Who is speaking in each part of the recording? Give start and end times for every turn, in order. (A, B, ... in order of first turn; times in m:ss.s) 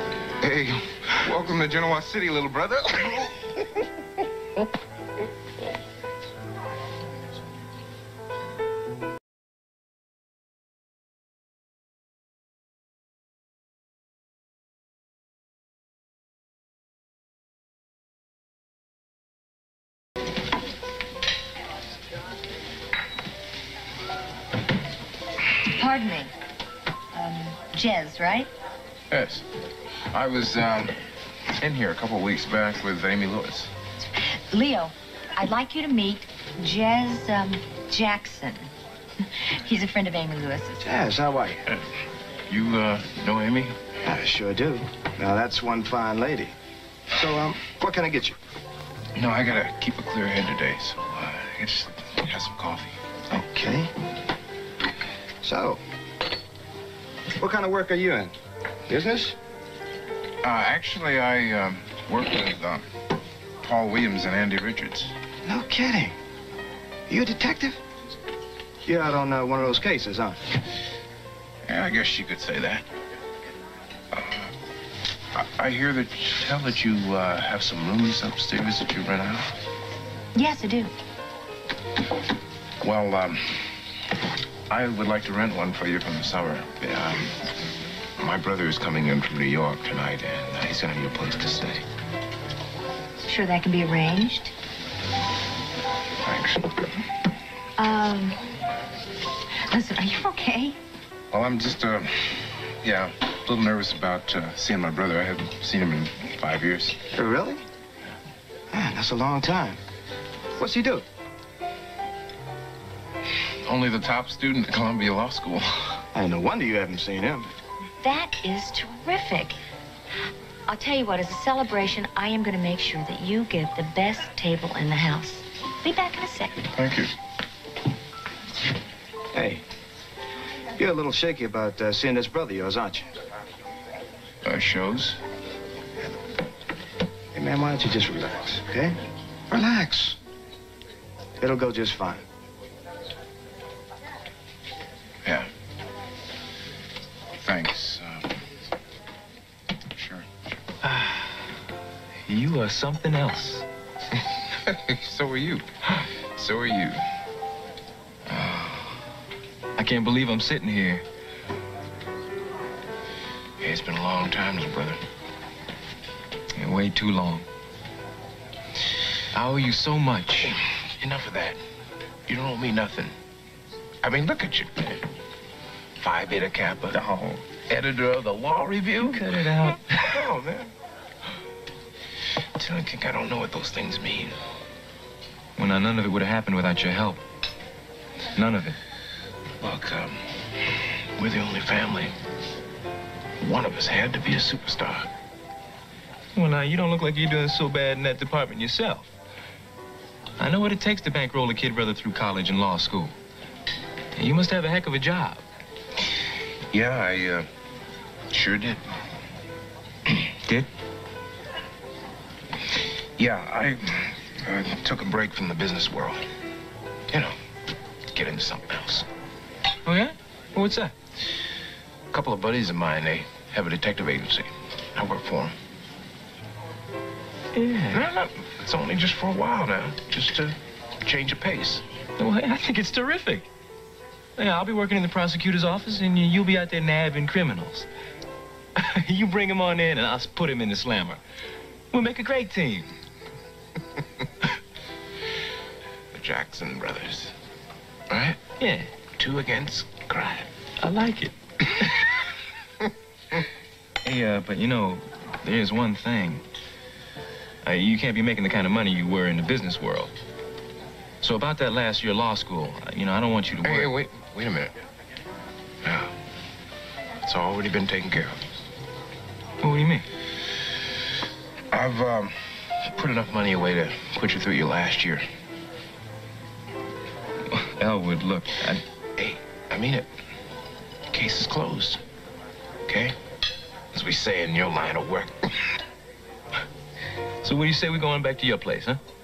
0:00.4-0:03.5 A
0:25.6-0:26.3 B
0:27.1-0:28.5 B
0:29.1-0:29.4 A
0:30.1-0:31.0 A
0:31.6-0:33.7 A
0:34.1-0:38.7 B
0:39.3-0:40.9 B
0:40.8-0:41.6 C
0:42.5-0:43.8 A
0:44.0-0:46.5 C
0:47.1-0:48.3 C
0:49.2-0:53.0 A
0:53.3-0:53.9 C
0:55.4-0:55.8 C
0:57.4-0:58.3 C
0:58.9-0:59.4 C
1:00.4-1:02.8 A
1:03.6-1:05.1 A
1:05.4-1:06.1 C
1:07.1-1:07.8 C
1:08.8-1:10.4 C
1:11.6-1:12.8 A
1:14.1-1:14.5 A
1:15.3-1:19.6 A
1:20.3-1:20.9 B
1:22.8-1:23.8 A
1:24.7-1:27.4 A
1:28.2-1:31.8 A
1:33.2-1:34.5 B
1:36.2-1:36.7 A
1:37.8-1:38.4 B
1:39.6-1:40.8 B
1:41.3-1:47.1 A
1:47.1-1:47.6 C
1:48.7-1:49.8 C
1:50.6-1:51.0 C
1:53.6-1:56.0 A
1:56.1-1:57.5 C
1:58.0-1:59.6 B
2:00.7-2:06.6 B
2:06.8-2:07.1 A
2:09.3-2:09.6 C
2:10.8-2:13.1 C
2:14.4-2:15.2 A
2:17.3-2:19.0 C
2:19.5-2:20.2 C
2:21.4-2:22.2 C
2:25.2-2:25.5 A
2:27.4-2:28.4 A
2:29.9-2:30.3 A
2:30.8-2:31.4 D
2:32.2-2:33.6 D
2:34.6-2:37.0 A
2:38.3-2:38.7 D
2:39.8-2:41.0 D
2:43.6-2:45.0 A
2:46.5-2:47.4 D
2:49.3-2:50.5 D
2:50.5-2:51.6 A
2:52.3-2:53.1 A
2:54.0-2:55.0 A
2:56.0-2:57.0 A
2:56.9-2:57.4 D
2:57.7-2:59.3 A
2:59.0-3:00.2 D
3:00.0-3:00.7 A
3:02.6-3:04.3 A
3:05.6-3:07.2 D
3:08.4-3:08.8 D
3:09.6-3:10.2 A
3:11.2-3:12.1 A
3:13.4-3:15.1 A
3:16.3-3:19.1 D
3:20.4-3:23.1 D
3:24.2-3:25.4 D
3:26.7-3:27.4 A
3:28.3-3:28.8 A
3:33.2-3:36.2 A
3:38.1-3:39.0 A
3:39.8-3:40.9 D
3:42.1-3:45.5 A
3:47.5-3:48.0 D
3:47.9-3:51.8 A
3:52.2-3:53.5 D
3:54.4-3:57.9 D
3:58.8-4:01.2 D
4:01.9-4:02.9 D
4:06.1-4:07.3 A
4:08.1-4:08.4 A
4:08.6-4:08.9 D
4:09.2-4:10.5 A
4:10.8-4:12.1 D
4:14.0-4:16.4 D
4:17.6-4:20.1 D
4:21.2-4:23.9 D
4:23.6-4:24.7 A
4:25.8-4:26.1 A
4:27.2-4:28.4 A
4:29.6-4:30.0 D
4:31.7-4:35.2 A
4:37.5-4:38.8 D
4:39.2-4:40.1 A
4:41.1-4:42.0 A
4:42.9-4:43.2 A
4:43.9-4:45.5 A
4:47.4-4:49.0 D